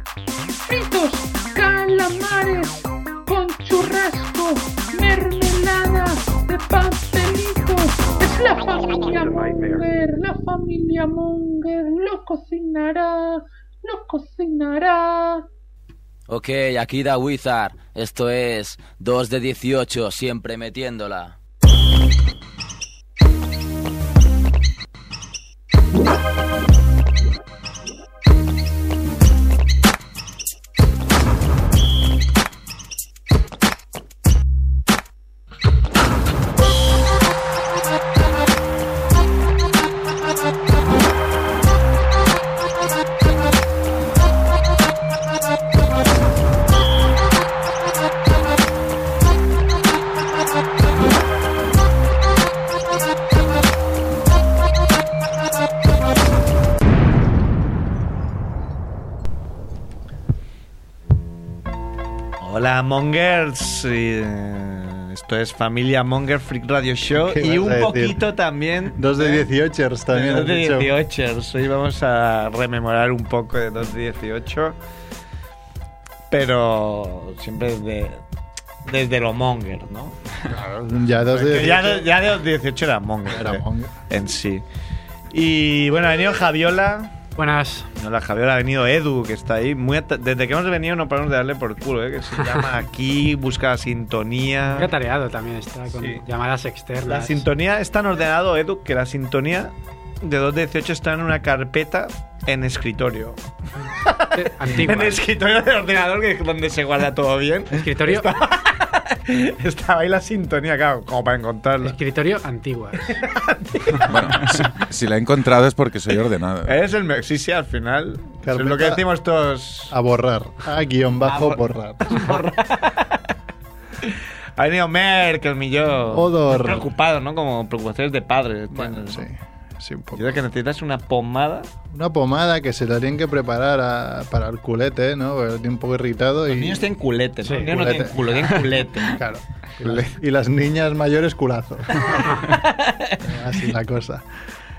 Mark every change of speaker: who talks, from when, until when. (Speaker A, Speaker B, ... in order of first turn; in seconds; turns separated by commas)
Speaker A: 0.6-15.5, Speaker B: 16.3-21.3, Speaker C: 62.4-69.5, Speaker D: 67.2-68.2, Speaker D: 68.9-70.9, Speaker C: 70.1-74.8, Speaker C: 76.3-78.2, Speaker C: 78.8-80.6, Speaker D: 80.5-82.1, Speaker C: 81.3-84.6, Speaker D: 83.3-84.0, Speaker C: 85.3-87.2, Speaker E: 87.4-87.9, Speaker C: 88.0-94.9, Speaker E: 94.7-97.5, Speaker C: 95.9-96.2, Speaker C: 97.0-103.4, Speaker C: 104.0-112.0, Speaker E: 104.3-105.2, Speaker E: 107.7-108.3, Speaker E: 111.8-113.2, Speaker C: 113.1-114.2, Speaker F: 114.0-116.8, Speaker C: 116.7-119.9, Speaker D: 118.4-119.0, Speaker D: 119.9-122.2, Speaker C: 121.2-123.2, Speaker C: 124.0-129.2, Speaker D: 126.1-126.9, Speaker D: 128.7-130.4, Speaker C: 130.1-131.7, Speaker D: 131.9-136.9, Speaker C: 136.5-139.2, Speaker E: 137.4-138.6, Speaker D: 137.5-142.2, Speaker C: 139.8-140.1, Speaker C: 141.9-143.2, Speaker D: 143.2-144.2